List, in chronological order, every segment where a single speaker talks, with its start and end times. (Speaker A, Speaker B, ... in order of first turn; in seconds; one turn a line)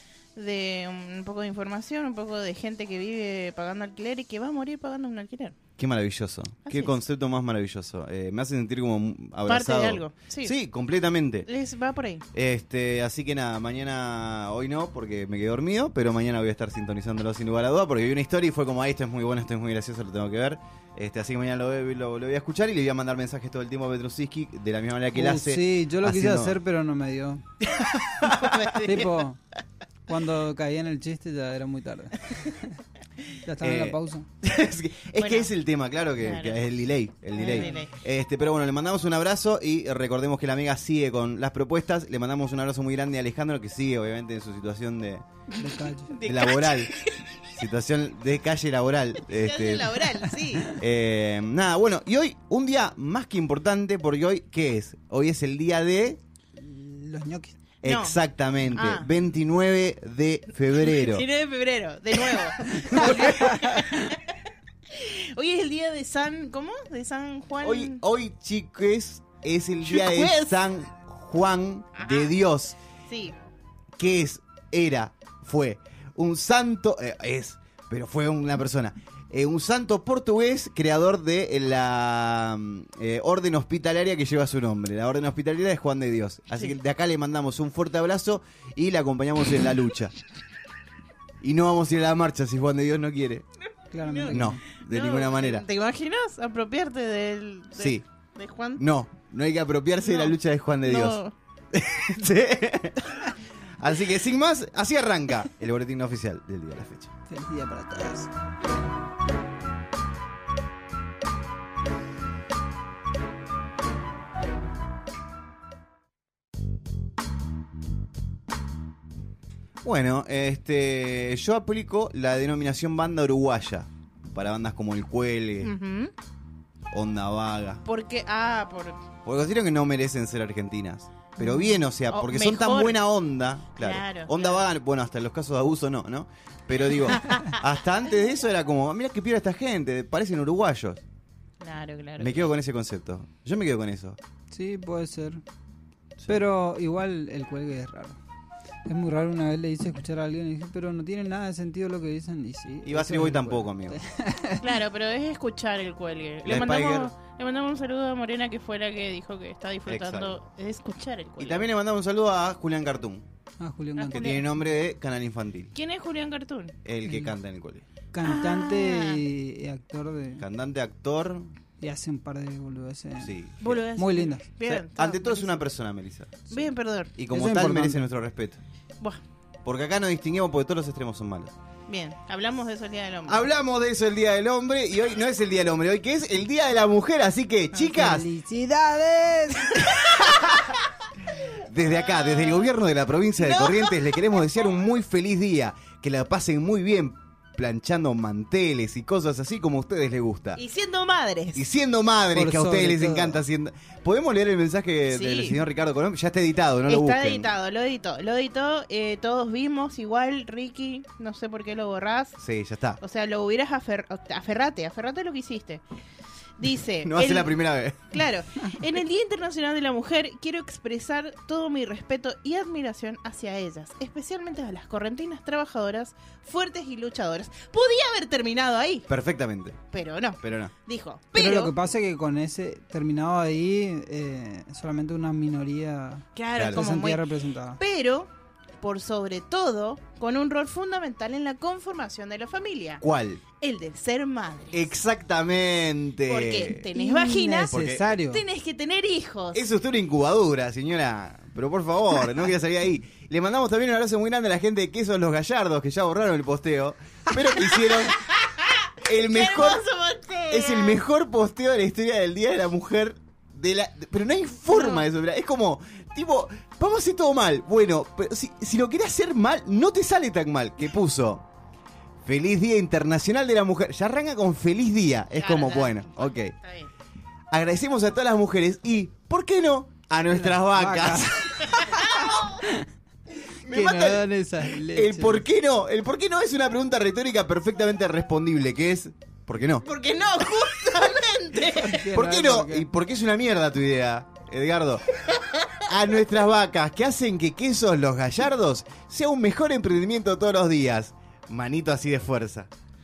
Speaker A: 0.3-5.5
Speaker B: 5.8-11.5
Speaker A: 6.7-7.0
Speaker A: 9.5-10.5
Speaker A: 11.4-12.2
Speaker B: 12.3-26.6
Speaker C: 25.1-27.4
Speaker B: 28.2-28.6
Speaker A: 28.2-29.1
Speaker C: 28.8-29.4
Speaker C: 30.1-32.6
Speaker C: 33.4-34.2
Speaker B: 33.6-45.2
Speaker A: 35.2-35.5
Speaker A: 36.2-36.5
Speaker A: 37.4-37.9
Speaker C: 45.6-46.1
Speaker A: 46.1-47.1
Speaker B: 46.2-47.0
Speaker B: 47.5-50.0
Speaker A: 49.3-50.7
Speaker B: 50.7-56.2
Speaker C: 56.5-57.6
Speaker A: 57.8-58.2
Speaker B: 57.8-61.2
Speaker A: 58.7-59.1
Speaker A: 60.9-64.3
Speaker B: 62.7-63.7
Speaker C: 63.5-64.0
Speaker A: 64.9-68.0
Speaker B: 67.6-72.7
Speaker A: 69.8-70.7
Speaker A: 72.0-72.3
Speaker A: 73.1-73.3
Speaker B: 74.0-90.1
Speaker B: 91.4-93.5
Speaker C: 93.9-94.6
Speaker A: 94.0-98.8
Speaker B: 94.3-95.7
Speaker B: 97.8-98.0
Speaker B: 98.8-101.2
Speaker A: 100.0-101.3
Speaker B: 101.7-107.1
Speaker C: 107.3-108.3
Speaker B: 119.8-125.7
Speaker A: 125.6-126.1
Speaker B: 126.9-127.8
Speaker A: 127.8-129.0
Speaker B: 129.2-141.0
Speaker A: 132.1-133.0
Speaker A: 133.8-134.6
Speaker A: 141.6-142.5
Speaker B: 142.2-144.2
Speaker C: 144.5-145.4
Speaker B: 146.2-146.4
Speaker C: 146.3-148.2
Speaker C: 148.8-154.6
Speaker B: 152.8-154.0
Speaker A: 154.6-161.7
Speaker B: 156.4-157.1
Speaker B: 159.8-160.3
Speaker B: 161.4-163.2
Speaker C: 163.6-164.3
Speaker A: 164.0-164.4
Speaker B: 164.1-165.7
Speaker A: 165.7-166.7
Speaker B: 166.8-167.8
Speaker C: 167.1-167.3
Speaker C: 168.1-170.4
Speaker A: 168.2-169.2
Speaker B: 170.4-171.5
Speaker C: 171.8-173.3
Speaker B: 173.2-173.8
Speaker A: 173.6-175.7
Speaker C: 174.0-174.5
Speaker B: 174.6-176.6
Speaker A: 176.5-177.1
Speaker B: 177.2-178.6
Speaker C: 177.3-178.0
Speaker B: 179.6-181.6
Speaker A: 181.9-183.4
Speaker B: 183.3-188.3
Speaker C: 187.7-189.8
Speaker B: 189.9-190.8
Speaker B: 191.6-200.6
Speaker A: 192.1-192.6
Speaker A: 193.4-194.2
Speaker A: 200.6-201.6
Speaker B: 201.6-207.5
Speaker C: 202.3-203.4
Speaker A: 205.1-205.6
Speaker A: 206.9-212.4
Speaker B: 212.4-213.0
Speaker A: 213.0-215.8
Speaker A: 216.6-217.6
Speaker B: 217.0-218.1
Speaker A: 218.1-229.1
Speaker B: 229.1-229.8
Speaker A: 229.9-231.7
Speaker B: 230.4-230.7
Speaker C: 231.3-237.8
Speaker A: 236.3-237.2
Speaker B: 236.6-236.8
Speaker A: 237.8-243.0
Speaker B: 243.0-243.4
Speaker A: 243.6-244.9
Speaker B: 244.7-246.9
Speaker A: 246.2-247.7
Speaker C: 246.9-248.4
Speaker B: 247.7-248.1
Speaker A: 248.3-249.6
Speaker B: 249.5-258.2
Speaker A: 258.2-261.0
Speaker B: 259.0-259.8
Speaker B: 260.5-271.4
Speaker A: 264.7-265.1
Speaker B: 272.2-276.6
Speaker A: 275.3-276.9
Speaker B: 277.5-281.7
Speaker C: 280.3-282.8
Speaker A: 281.8-282.6
Speaker C: 283.6-285.4
Speaker B: 283.7-284.2
Speaker B: 284.8-289.9
Speaker A: 289.8-292.1
Speaker C: 291.9-292.9
Speaker B: 292.0-295.1
Speaker A: 295.3-295.6
Speaker B: 295.8-302.7